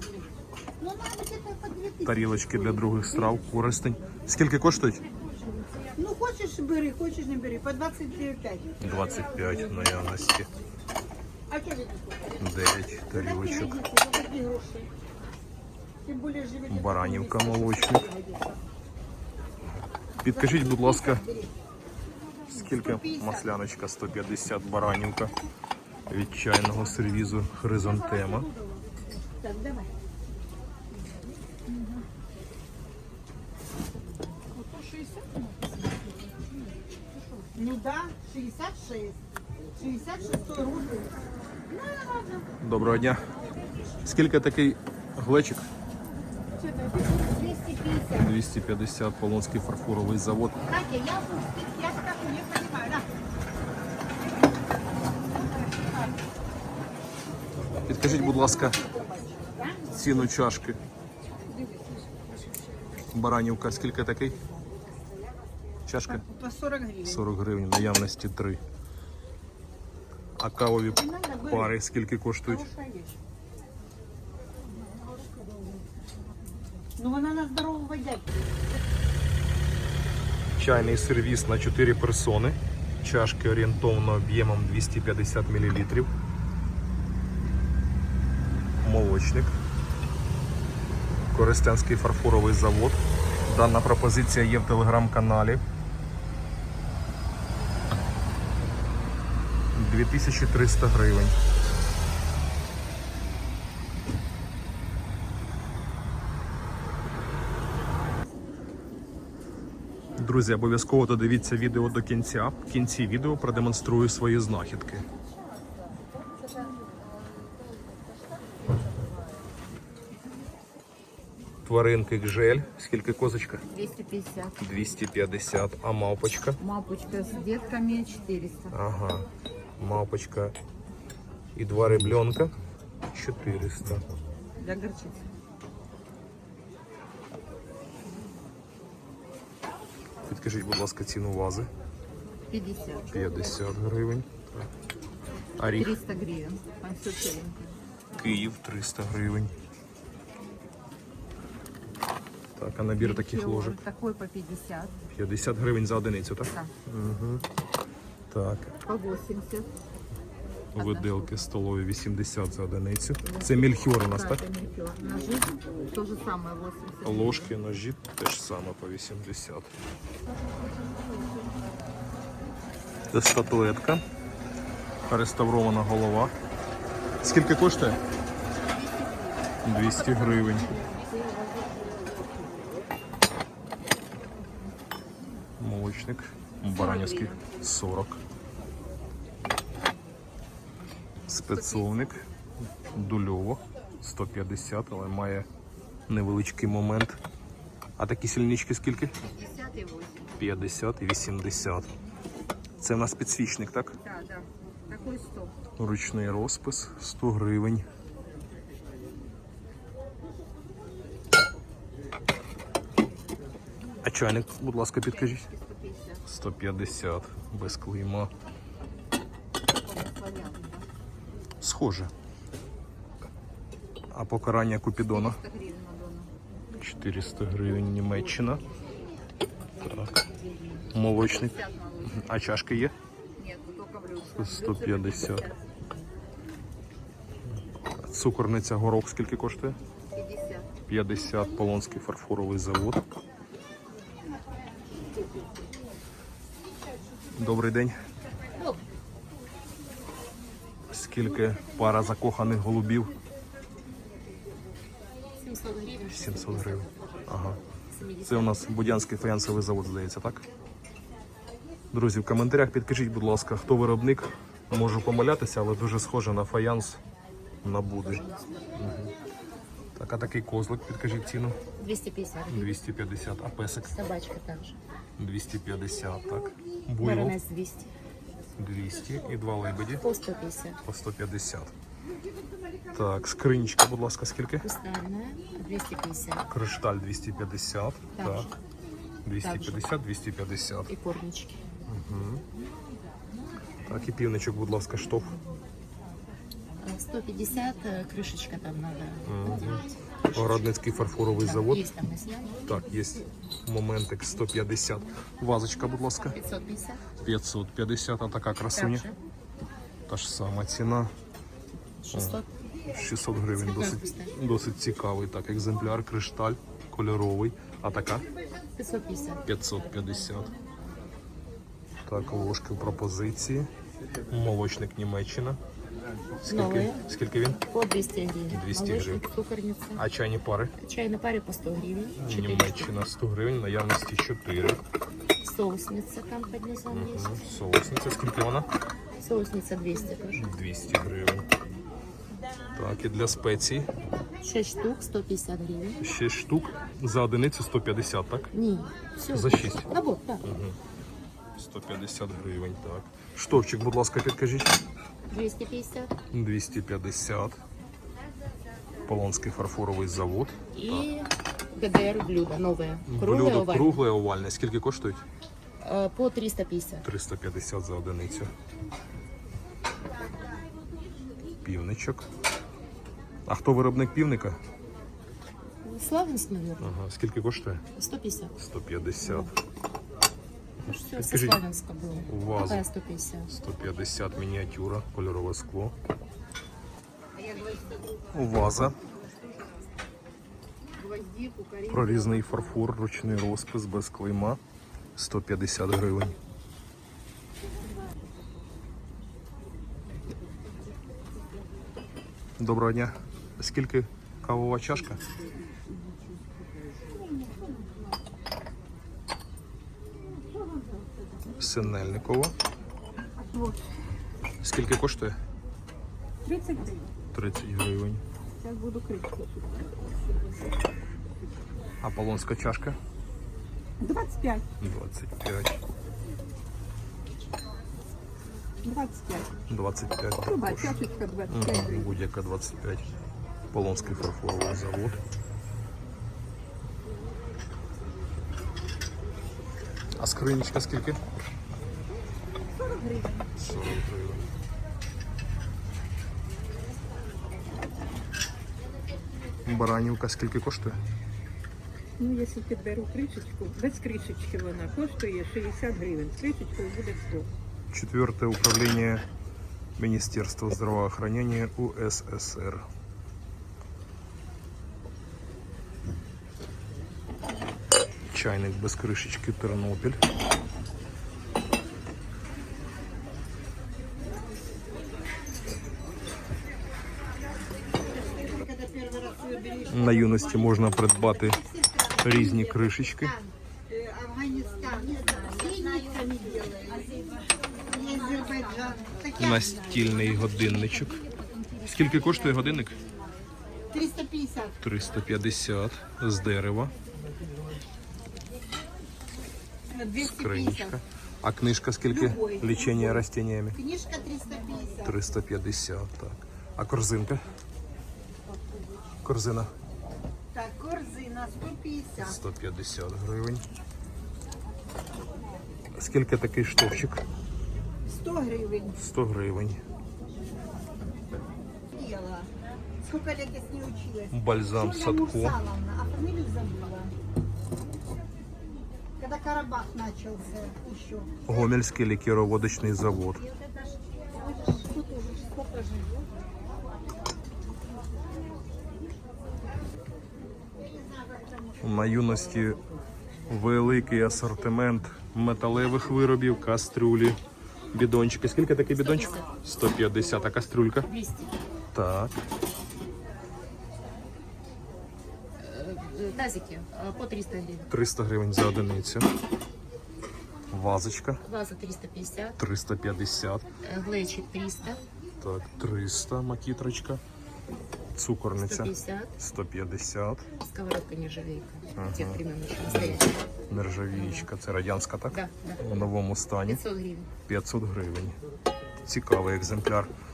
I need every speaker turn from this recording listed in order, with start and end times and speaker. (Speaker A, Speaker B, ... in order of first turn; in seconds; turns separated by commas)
Speaker A: 0.8-2.6, Speaker B: 2.0-5.0, Speaker A: 6.0-8.7, Speaker B: 8.8-10.5, Speaker A: 11.5-12.2, Speaker B: 12.4-13.8, Speaker A: 13.1-14.9, Speaker A: 16.1-18.6, Speaker B: 16.7-18.1, Speaker B: 20.2-21.2, Speaker A: 20.3-21.5, Speaker B: 22.5-25.3, Speaker A: 22.5-23.5, Speaker B: 26.1-28.5, Speaker A: 29.3-29.9, Speaker A: 34.5-35.4, Speaker A: 37.5-39.2, Speaker A: 39.8-41.1, Speaker A: 41.7-42.5, Speaker B: 42.6-43.3, Speaker B: 44.0-45.7, Speaker A: 46.6-48.2, Speaker B: 48.1-50.6, Speaker A: 50.7-53.1, Speaker A: 55.3-56.2, Speaker B: 57.9-58.8, Speaker A: 58.0-60.2, Speaker B: 59.9-60.8, Speaker A: 61.6-62.0, Speaker B: 63.1-64.4, Speaker B: 65.9-66.2, Speaker A: 66.1-67.2, Speaker B: 67.0-68.6, Speaker B: 70.4-72.7, Speaker A: 71.0-71.7, Speaker A: 72.5-73.1, Speaker A: 77.0-78.3, Speaker B: 80.6-86.1, Speaker B: 88.8-89.5, Speaker B: 91.3-95.6, Speaker B: 99.7-101.4, Speaker B: 110.2-115.1, Speaker B: 121.7-123.6, Speaker C: 123.7-124.6, Speaker B: 124.6-126.6, Speaker C: 126.6-128.8, Speaker B: 128.7-129.3, Speaker B: 129.8-130.6, Speaker B: 131.6-132.5, Speaker B: 133.1-134.1, Speaker A: 134.7-135.2, Speaker B: 140.2-141.7, Speaker C: 142.5-143.3, Speaker B: 143.1-144.7, Speaker B: 145.6-146.0, Speaker C: 145.8-147.8, Speaker B: 148.2-149.5, Speaker B: 152.6-153.8, Speaker C: 153.0-154.9, Speaker B: 155.1-157.4, Speaker B: 158.3-158.8, Speaker C: 158.8-159.7, Speaker B: 160.8-164.4, Speaker C: 160.8-161.3, Speaker C: 163.2-167.6, Speaker B: 167.0-169.7, Speaker B: 173.1-174.0, Speaker B: 175.1-176.3, Speaker B: 177.2-178.0, Speaker B: 179.6-180.8, Speaker D: 180.1-181.1, Speaker A: 181.3-181.7, Speaker B: 185.6-188.2, Speaker D: 186.7-187.4, Speaker B: 191.3-192.2, Speaker B: 192.9-195.5, Speaker B: 196.1-197.2, Speaker B: 198.0-199.2, Speaker C: 199.4-200.2, Speaker B: 200.4-201.9, Speaker B: 202.8-204.0, Speaker C: 204.0-205.5, Speaker B: 205.8-207.9, Speaker B: 214.0-215.5, Speaker C: 215.1-216.2, Speaker B: 216.2-218.3, Speaker C: 219.8-220.8, Speaker B: 221.6-222.1, Speaker B: 224.1-225.4, Speaker C: 225.0-226.3, Speaker B: 226.8-228.6, Speaker B: 229.8-230.2, Speaker B: 230.9-232.9, Speaker C: 231.2-232.2, Speaker C: 233.4-235.6, Speaker B: 234.3-235.5, Speaker B: 238.0-239.8, Speaker C: 240.1-240.7, Speaker B: 240.9-243.0, Speaker B: 247.3-248.0, Speaker D: 248.5-248.8, Speaker B: 250.9-253.1, Speaker D: 255.4-257.1, Speaker B: 256.1-257.6, Speaker D: 257.9-258.7, Speaker B: 258.2-260.4, Speaker B: 261.9-267.0, Speaker B: 267.6-269.1, Speaker B: 270.0-271.6, Speaker D: 271.8-272.8, Speaker B: 272.5-274.0, Speaker D: 273.8-274.8, Speaker B: 275.2-277.4, Speaker D: 277.0-277.9, Speaker B: 278.6-280.1, Speaker D: 280.0-280.8, Speaker B: 280.8-281.7, Speaker B: 282.9-284.7, Speaker D: 284.6-286.5, Speaker B: 286.5-288.5, Speaker D: 288.2-288.5, Speaker B: 289.2-290.9, Speaker D: 289.4-289.9, Speaker D: 290.9-291.7, Speaker B: 291.9-292.4, Speaker B: 293.9-295.4, Speaker D: 296.8-302.6, Speaker B: 299.2-301.9, Speaker B: 302.7-306.4, Speaker D: 306.3-307.1, Speaker B: 307.2-309.1, Speaker D: 308.7-309.2, Speaker B: 310.1-311.1, Speaker D: 312.0-312.5, Speaker B: 312.1-318.3, Speaker D: 313.5-314.3, Speaker D: 318.8-319.5, Speaker B: 319.4-320.5, Speaker B: 322.1-323.7, Speaker B: 324.3-325.6, Speaker B: 326.4-327.6, Speaker D: 326.5-327.0, Speaker D: 327.7-330.0, Speaker B: 328.5-329.2, Speaker B: 329.9-330.8, Speaker D: 330.8-332.9, Speaker B: 332.2-334.8, Speaker D: 335.4-337.4, Speaker B: 336.9-338.7, Speaker D: 339.2-340.5, Speaker B: 340.3-341.5, Speaker B: 342.8-343.9, Speaker D: 344.4-346.0, Speaker B: 346.0-348.5, Speaker D: 348.5-350.4, Speaker B: 349.3-349.9, Speaker B: 350.4-350.8, Speaker B: 351.6-354.8, Speaker D: 355.3-356.1, Speaker B: 356.3-357.6, Speaker B: 359.1-361.1, Speaker D: 360.7-364.0, Speaker B: 363.1-365.2, Speaker D: 365.8-367.1, Speaker B: 367.0-368.5, Speaker B: 371.6-372.3, Speaker B: 373.5-374.6, Speaker D: 375.8-376.9, Speaker B: 376.8-377.8, Speaker D: 377.9-378.6, Speaker B: 378.6-379.5, Speaker D: 380.9-383.5, Speaker B: 380.9-381.6, Speaker B: 382.3-382.9, Speaker B: 383.5-385.9, Speaker A: 387.4-388.1, Speaker B: 388.3-389.0, Speaker C: 391.0-392.8, Speaker B: 391.9-394.6, Speaker B: 395.1-396.4, Speaker B: 402.6-405.2, Speaker B: 411.6-412.6, Speaker A: 413.4-413.8, Speaker B: 414.6-415.4, Speaker A: 416.4-417.1, Speaker B: 417.3-418.2, Speaker A: 418.6-419.8, Speaker B: 422.0-423.0, Speaker A: 424.0-424.6, Speaker B: 424.8-425.8, Speaker A: 428.8-429.5, Speaker B: 429.7-433.1, Speaker A: 430.5-431.9, Speaker C: 430.6-431.8, Speaker B: 433.7-435.2, Speaker B: 440.2-441.2, Speaker A: 442.8-443.4, Speaker B: 443.6-444.5, Speaker B: 449.6-451.0, Speaker D: 452.2-457.5, Speaker B: 457.9-459.2, Speaker B: 460.0-462.8, Speaker B: 468.3-470.2, Speaker A: 478.3-480.5, Speaker B: 479.9-483.4, Speaker A: 481.9-482.7, Speaker A: 483.4-487.3, Speaker A: 487.9-489.8, Speaker B: 489.4-491.2, Speaker B: 491.8-493.0, Speaker A: 493.9-494.8, Speaker B: 494.8-496.9, Speaker A: 499.9-501.0, Speaker B: 500.2-503.8, Speaker A: 502.1-505.1, Speaker B: 505.0-507.4, Speaker B: 509.2-509.7, Speaker A: 510.5-512.4, Speaker B: 512.2-513.6, Speaker B: 516.0-517.2, Speaker A: 518.0-519.0, Speaker B: 519.0-519.8, Speaker A: 521.9-522.5, Speaker A: 523.0-527.1, Speaker B: 524.3-525.6, Speaker A: 529.2-531.3, Speaker B: 531.5-533.4, Speaker A: 534.3-536.1, Speaker B: 541.8-542.8, Speaker B: 543.5-547.4, Speaker B: 547.9-551.1, Speaker D: 549.0-549.5, Speaker D: 551.1-551.6, Speaker B: 551.9-552.3, Speaker D: 555.6-557.9, Speaker B: 557.9-559.3, Speaker B: 560.7-561.4, Speaker D: 561.4-562.6, Speaker B: 562.6-563.6, Speaker D: 563.8-565.0, Speaker B: 565.4-567.2, Speaker B: 568.1-570.5, Speaker D: 568.6-569.4, Speaker D: 570.6-573.4, Speaker B: 572.0-576.8, Speaker D: 574.1-574.5, Speaker D: 575.3-576.0, Speaker D: 576.6-577.3, Speaker B: 577.5-578.4, Speaker B: 579.0-580.1